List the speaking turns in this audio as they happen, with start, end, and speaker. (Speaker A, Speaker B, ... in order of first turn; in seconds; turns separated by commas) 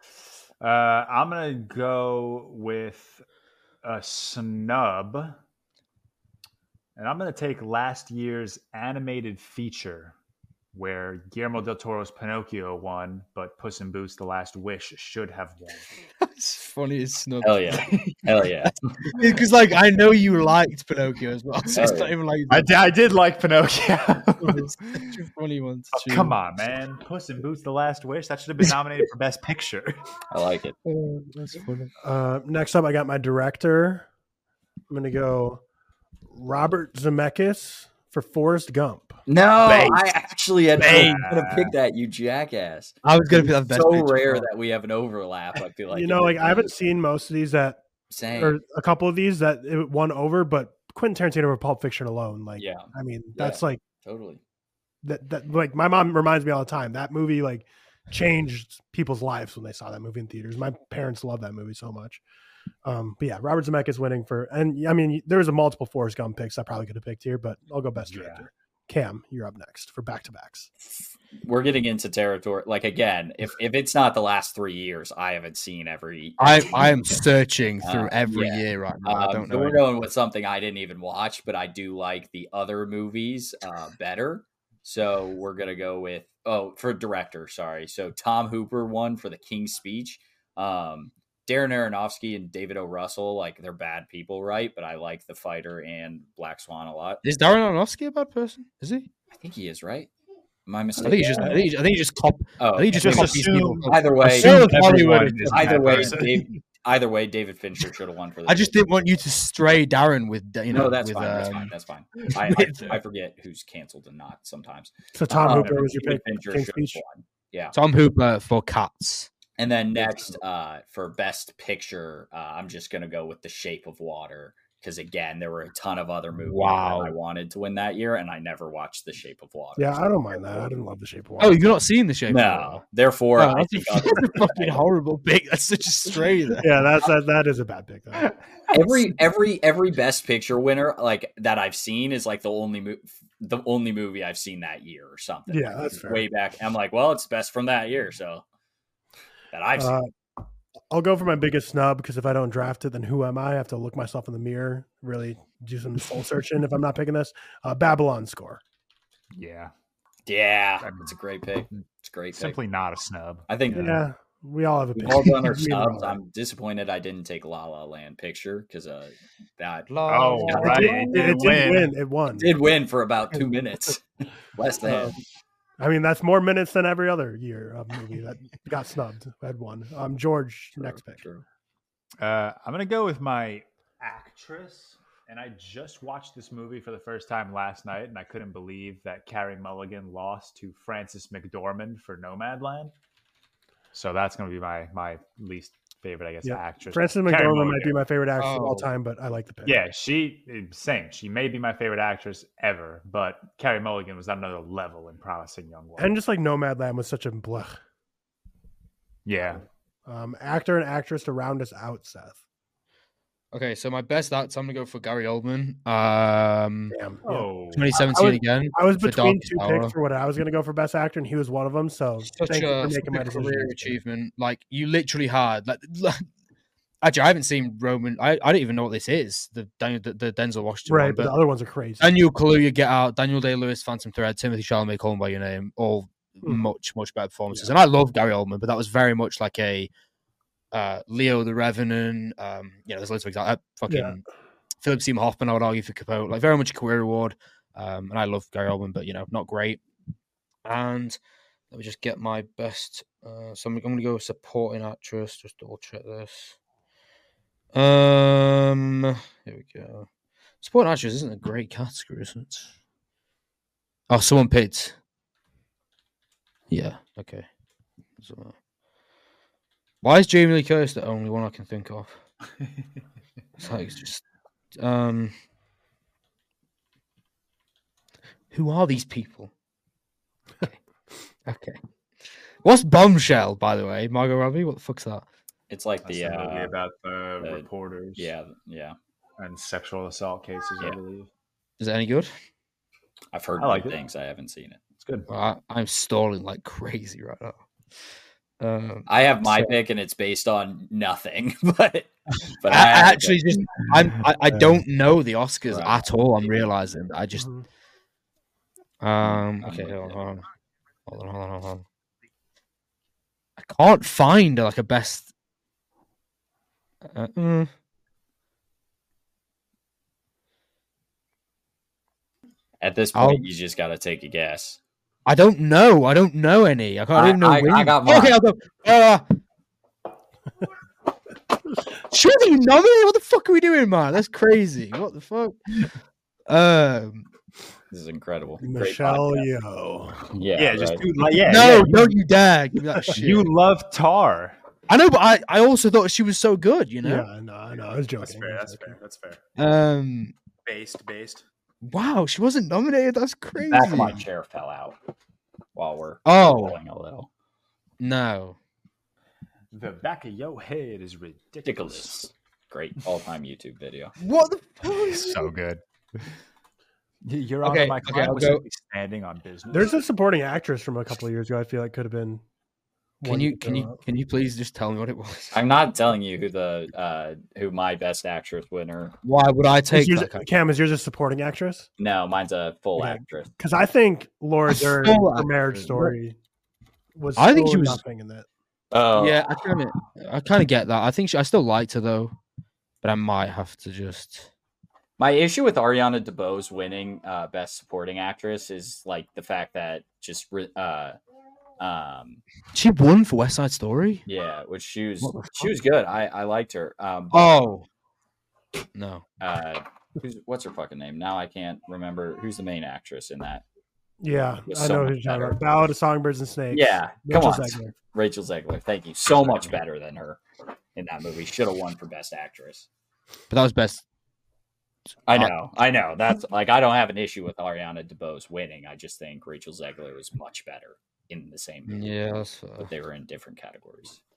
Speaker A: 0.6-3.2, Speaker A: 3.8-5.4, Speaker A: 7.0-10.1, Speaker A: 10.7-15.9, Speaker B: 16.2-17.8, Speaker C: 17.4-18.8, Speaker A: 17.8-18.2, Speaker B: 19.1-22.7, Speaker C: 21.7-22.1, Speaker A: 22.5-25.2, Speaker B: 24.4-26.4, Speaker A: 25.9-30.0, Speaker C: 30.3-30.8, Speaker B: 30.9-31.9, Speaker D: 32.0-34.1, Speaker D: 34.9-35.6, Speaker D: 36.3-39.2, Speaker C: 39.3-46.7, Speaker B: 39.6-40.0, Speaker B: 40.8-41.2, Speaker A: 40.9-41.7, Speaker B: 43.0-44.5, Speaker D: 45.9-47.8, Speaker C: 48.1-48.6, Speaker D: 48.3-53.8, Speaker C: 52.6-54.4, Speaker D: 55.0-62.2, Speaker D: 62.8-70.7, Speaker A: 68.0-68.5, Speaker C: 70.8-77.2, Speaker B: 76.4-79.8, Speaker C: 77.8-97.2, Speaker B: 97.2-99.1, Speaker C: 99.4-100.1, Speaker C: 100.7-101.7, Speaker B: 101.0-106.4, Speaker C: 102.6-108.8, Speaker A: 102.9-106.4, Speaker B: 108.5-113.0, Speaker C: 110.7-117.8, Speaker D: 115.1-117.0, Speaker B: 117.7-119.3, Speaker C: 119.6-130.7, Speaker B: 126.5-127.1, Speaker D: 129.8-131.7, Speaker B: 131.4-132.8, Speaker C: 132.3-134.8, Speaker B: 133.4-136.9, Speaker D: 136.6-138.3, Speaker C: 138.7-148.4, Speaker D: 145.5-146.2, Speaker C: 149.5-150.0, Speaker D: 149.8-150.1, Speaker D: 150.9-158.6, Speaker A: 159.3-159.7, Speaker C: 160.2-162.6, Speaker A: 160.8-161.1, Speaker A: 162.3-163.9, Speaker C: 163.5-164.0, Speaker D: 163.7-166.2, Speaker C: 164.9-169.9, Speaker B: 169.9-171.4, Speaker A: 170.1-171.9, Speaker C: 170.4-171.0, Speaker D: 170.5-172.5, Speaker C: 172.3-175.2, Speaker D: 174.8-175.1, Speaker D: 175.8-181.2, Speaker C: 180.8-181.4, Speaker A: 182.2-192.9, Speaker A: 193.9-198.0, Speaker D: 196.4-199.8, Speaker B: 198.4-198.9, Speaker A: 199.6-206.1, Speaker D: 206.0-207.8, Speaker A: 209.2-209.6, Speaker D: 210.1-212.4, Speaker B: 213.5-216.9, Speaker D: 216.9-223.9, Speaker A: 217.2-217.9, Speaker B: 217.7-219.9, Speaker B: 222.2-226.2, Speaker B: 227.0-231.3, Speaker D: 230.9-232.1, Speaker B: 232.0-239.9, Speaker B: 240.7-244.2, Speaker D: 243.9-244.2, Speaker B: 244.8-249.8, Speaker B: 250.6-251.2, Speaker B: 251.7-256.6, Speaker B: 257.7-260.1, Speaker B: 260.6-262.7, Speaker B: 264.1-264.9, Speaker B: 266.7-267.4, Speaker B: 268.2-268.5, Speaker B: 270.0-272.2, Speaker B: 273.6-274.2, Speaker B: 274.8-275.3, Speaker B: 278.5-279.5, Speaker B: 281.4-281.8, Speaker B: 282.6-285.2, Speaker C: 285.7-286.8, Speaker A: 286.0-288.3, Speaker C: 288.2-288.9, Speaker A: 289.4-291.3, Speaker B: 291.8-292.3, Speaker C: 293.3-294.8, Speaker A: 293.6-293.9, Speaker A: 295.0-295.3, Speaker B: 295.3-297.6, Speaker B: 298.6-299.7, Speaker C: 299.1-303.6, Speaker B: 302.7-307.5, Speaker C: 305.7-306.6, Speaker D: 307.3-307.6, Speaker B: 309.0-310.4, Speaker C: 309.2-310.2, Speaker B: 311.1-311.8, Speaker B: 313.6-315.3, Speaker B: 317.1-317.7, Speaker C: 322.8-324.8, Speaker B: 323.1-323.4, Speaker B: 325.2-329.2, Speaker C: 327.1-328.4, Speaker B: 332.1-335.6, Speaker B: 336.5-337.2, Speaker C: 337.9-339.5, Speaker D: 338.6-340.2, Speaker C: 340.3-341.0, Speaker A: 340.6-342.1, Speaker B: 341.5-343.5, Speaker A: 343.1-344.5, Speaker B: 344.9-347.3, Speaker D: 347.0-349.0, Speaker A: 348.2-349.4, Speaker B: 349.6-350.3, Speaker A: 350.6-351.4, Speaker B: 351.8-354.2, Speaker C: 353.7-354.9, Speaker C: 355.8-357.3, Speaker B: 356.2-356.8, Speaker B: 358.0-358.6, Speaker A: 359.7-362.1, Speaker C: 361.6-364.1, Speaker B: 364.2-365.5, Speaker A: 364.9-366.3, Speaker A: 367.2-370.0, Speaker B: 367.6-368.6, Speaker D: 369.7-372.4, Speaker D: 373.2-374.0, Speaker B: 373.2-375.6, Speaker C: 375.5-379.1, Speaker B: 379.2-380.4, Speaker D: 379.9-381.9, Speaker C: 382.0-383.5, Speaker D: 383.0-386.4, Speaker B: 384.7-386.1, Speaker D: 387.1-388.4, Speaker B: 387.4-388.0, Speaker C: 388.9-389.8, Speaker B: 389.1-392.3, Speaker B: 393.0-394.5, Speaker C: 395.2-401.2, Speaker C: 401.8-402.4, Speaker B: 402.7-404.2, Speaker C: 404.3-407.5, Speaker B: 405.2-405.7, Speaker B: 407.3-407.9, Speaker B: 408.9-409.2, Speaker C: 409.4-413.6, Speaker D: 414.2-417.9, Speaker C: 414.7-415.6, Speaker C: 416.7-420.4, Speaker C: 420.9-422.9, Speaker B: 423.5-424.0, Speaker C: 425.3-432.1, Speaker B: 431.9-432.9, Speaker C: 432.8-434.2